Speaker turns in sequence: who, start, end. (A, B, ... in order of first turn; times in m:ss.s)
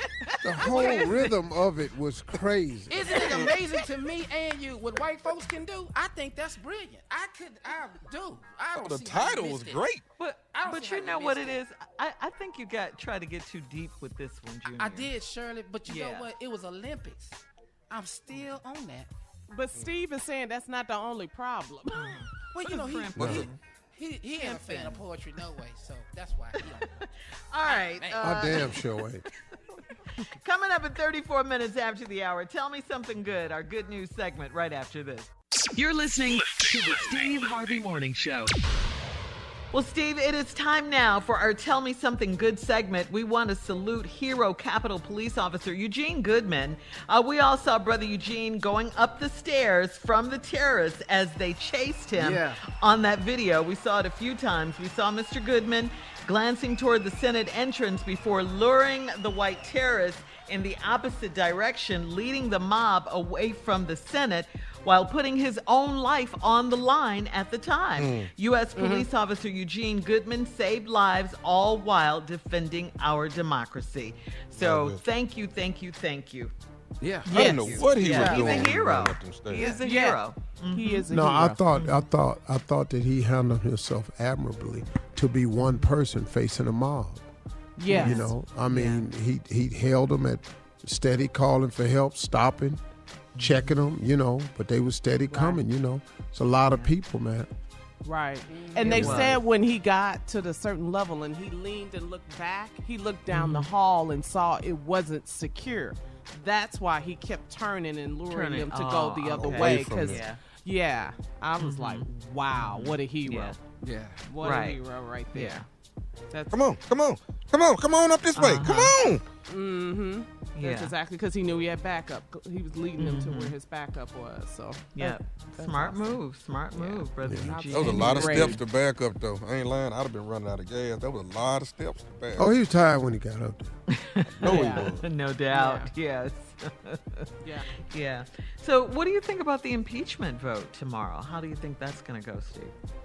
0:00.4-0:03.3 A
0:00.6-0:01.3 B
0:00.7-0:01.2 C
0:02.9-0:09.8 D
0:03.2-0:03.5 B
0:08.7-0:10.0 E
0:10.2-0:15.1 B
0:10.5-0:11.6 D
0:14.7-0:19.1 D
0:15.9-0:16.3 B
0:19.5-0:22.2 C
0:21.9-0:23.6 B
0:22.5-0:27.0 D
0:23.2-0:23.4 A
0:24.4-0:25.0 C
0:26.6-0:26.8 B
0:27.5-0:28.8 B
0:27.6-0:28.7 D
0:28.2-0:29.2 A
0:30.2-0:35.3 B
0:35.8-0:38.5 F
0:39.7-1:16.5 B
0:52.2-0:52.6 D
1:08.0-1:08.3 E
1:14.6-1:15.0 E
1:17.0-1:18.1 D
1:17.3-1:19.8 E
1:17.3-1:18.6 C
1:17.8-1:21.1 B
1:19.6-1:21.6 C
1:21.1-1:27.2 A
1:21.7-1:22.0 B
1:27.8-1:28.3 C
1:27.9-1:29.1 B
1:28.0-1:32.8 A
1:33.4-1:33.7 B
1:33.4-1:37.5 A
1:35.3-1:35.6 C
1:38.0-1:53.6 C
1:38.5-1:39.2 D
1:38.8-1:39.4 B
1:43.3-1:43.7 B
1:48.3-1:50.4 B
1:49.3-1:50.2 E
1:51.6-1:53.5 B
1:53.8-1:54.2 D
1:54.2-1:55.6 C
1:54.4-1:54.8 B
1:55.3-1:55.6 B
1:56.3-1:56.7 C
1:56.5-1:59.2 E
1:58.4-1:58.9 B
1:59.5-2:06.2 C
2:00.5-2:00.9 B
2:03.0-2:03.5 B
2:05.0-2:08.6 B
2:06.7-2:08.6 C
2:07.3-2:07.5 A
2:07.7-2:12.5 E
2:12.4-2:13.7 A
2:13.9-2:22.7 B
2:14.4-2:15.0 E
2:14.4-2:14.9 C
2:15.5-2:15.9 C
2:17.4-2:17.7 C